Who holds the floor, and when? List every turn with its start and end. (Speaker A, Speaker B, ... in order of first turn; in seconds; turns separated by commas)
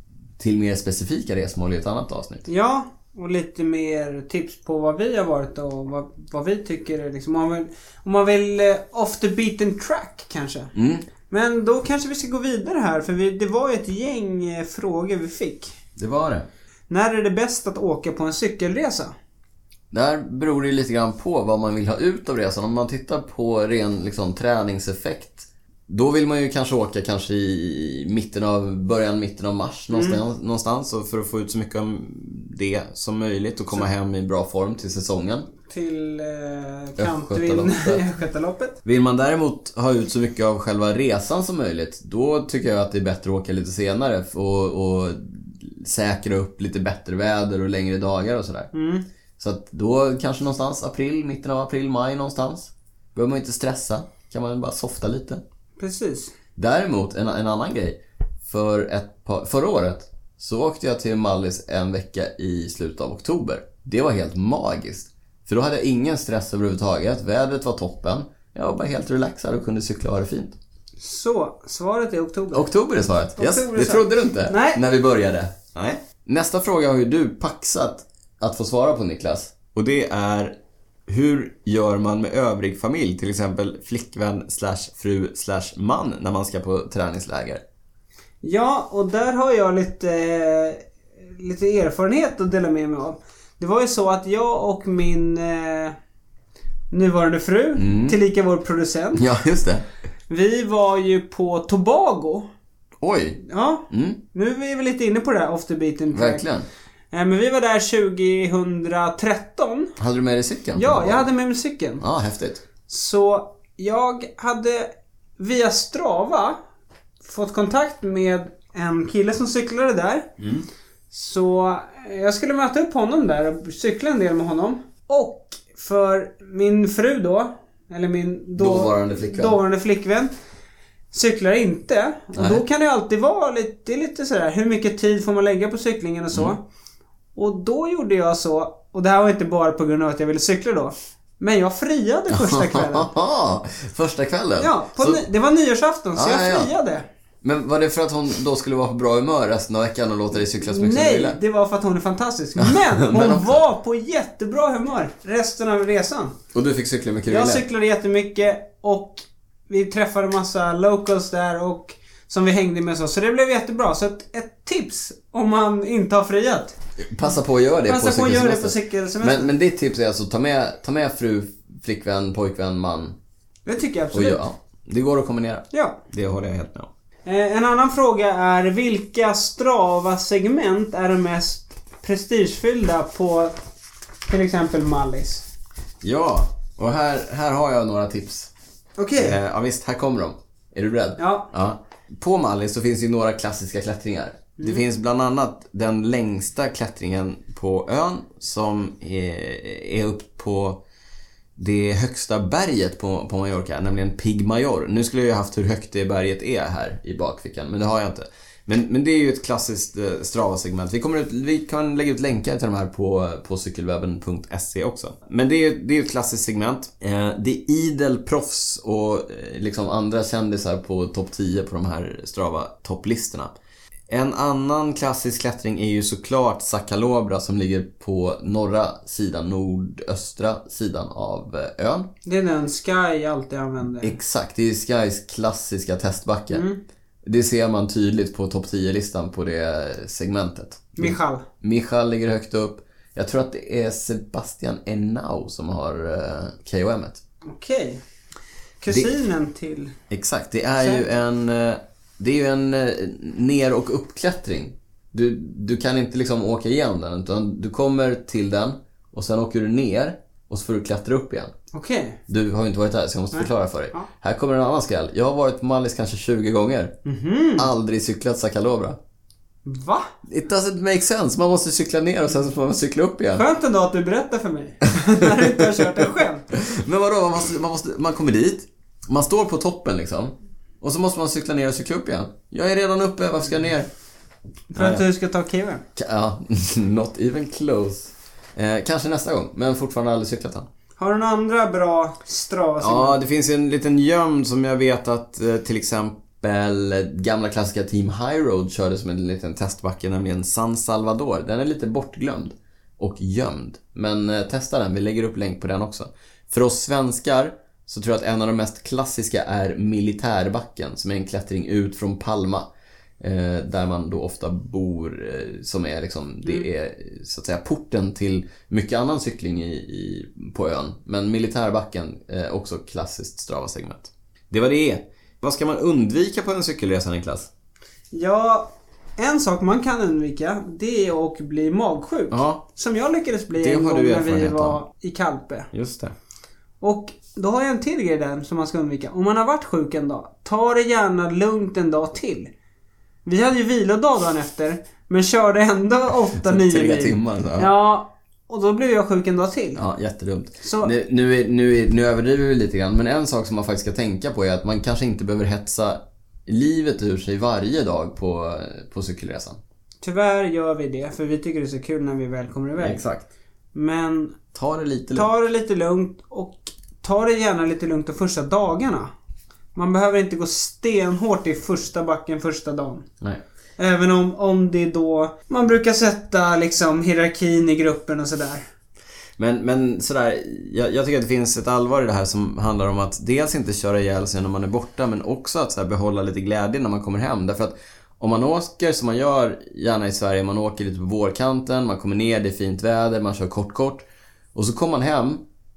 Speaker A: 0.4-2.5, Speaker B: 2.5-10.7, Speaker A: 10.7-11.1, Speaker B: 11.3-15.7, Speaker A: 15.9-16.5, Speaker B: 16.9-19.1, Speaker A: 19.9-35.5, Speaker B: 29.9-30.2, Speaker B: 35.7-38.8, Speaker A: 37.0-38.0, Speaker A: 38.8-48.7, Speaker B: 48.7-49.0, Speaker A: 49.4-55.4, Speaker B: 55.8-56.3, Speaker A: 56.6-70.5, Speaker B: 71.0-72.7, Speaker A: 72.5-80.5, Speaker B: 73.3-74.8, Speaker A: 81.1-87.6, Speaker B: 88.4-96.0, Speaker B: 96.9-99.2, Speaker A: 97.8-98.2, Speaker A: 99.2-99.8, Speaker B: 100.3-102.5, Speaker A: 103.0-104.2, Speaker B: 103.4-106.4, Speaker A: 106.1-106.7, Speaker B: 107.1-109.9, Speaker A: 110.0-111.3, Speaker B: 110.8-112.0, Speaker A: 112.0-112.6, Speaker B: 112.9-116.6, Speaker B: 117.2-120.3, Speaker A: 120.4-120.7, Speaker B: 121.1-130.3, Speaker A: 128.6-129.6, Speaker B: 131.1-136.6, Speaker A: 132.3-132.6, Speaker B: 137.3-143.1, Speaker A: 142.3-145.2, Speaker B: 144.6-147.1, Speaker A: 146.2-146.7, Speaker A: 147.4-151.4, Speaker B: 150.6-156.3, Speaker A: 152.6-153.6, Speaker A: 156.5-157.6, Speaker B: 157.3-166.8, Speaker A: 167.0-173.2, Speaker B: 167.8-169.5, Speaker B: 173.7-174.4, Speaker A: 174.1-176.9, Speaker B: 175.7-176.0, Speaker B: 177.2-183.6, Speaker B: 184.3-185.5, Speaker A: 186.0-188.5, Speaker B: 189.0-189.4, Speaker A: 189.2-200.8, Speaker B: 191.2-191.5, Speaker A: 201.6-223.5, Speaker A: 224.1-232.1, Speaker B: 232.2-234.2, Speaker A: 234.0-236.6, Speaker B: 236.5-236.8, Speaker A: 237.2-247.2, Speaker B: 241.0-241.4, Speaker B: 247.4-248.0, Speaker B: 248.8-249.9, Speaker A: 250.1-261.5, Speaker B: 250.8-251.0, Speaker B: 261.7-262.2, Speaker A: 262.3-266.9, Speaker B: 263.3-264.1, Speaker B: 267.0-267.7, Speaker A: 267.6-269.0, Speaker B: 269.6-270.1, Speaker A: 270.2-273.4, Speaker B: 273.3-276.5, Speaker A: 275.0-283.9, Speaker B: 284.7-285.8, Speaker A: 284.7-285.0, Speaker A: 285.9-290.7, Speaker B: 291.0-293.2, Speaker A: 292.8-312.6, Speaker A: 313.2-327.5, Speaker B: 328.1-335.7, Speaker A: 332.3-332.6, Speaker A: 333.6-334.8, Speaker A: 335.7-336.1, Speaker B: 336.8-342.5, Speaker B: 343.2-349.8, Speaker A: 346.4-347.7, Speaker A: 349.8-359.6, Speaker B: 350.6-350.9, Speaker B: 360.0-363.0, Speaker A: 362.8-363.2, Speaker B: 363.7-364.4, Speaker A: 364.5-365.3, Speaker B: 365.1-369.1, Speaker B: 369.7-373.1, Speaker B: 373.8-378.6, Speaker A: 379.4-395.4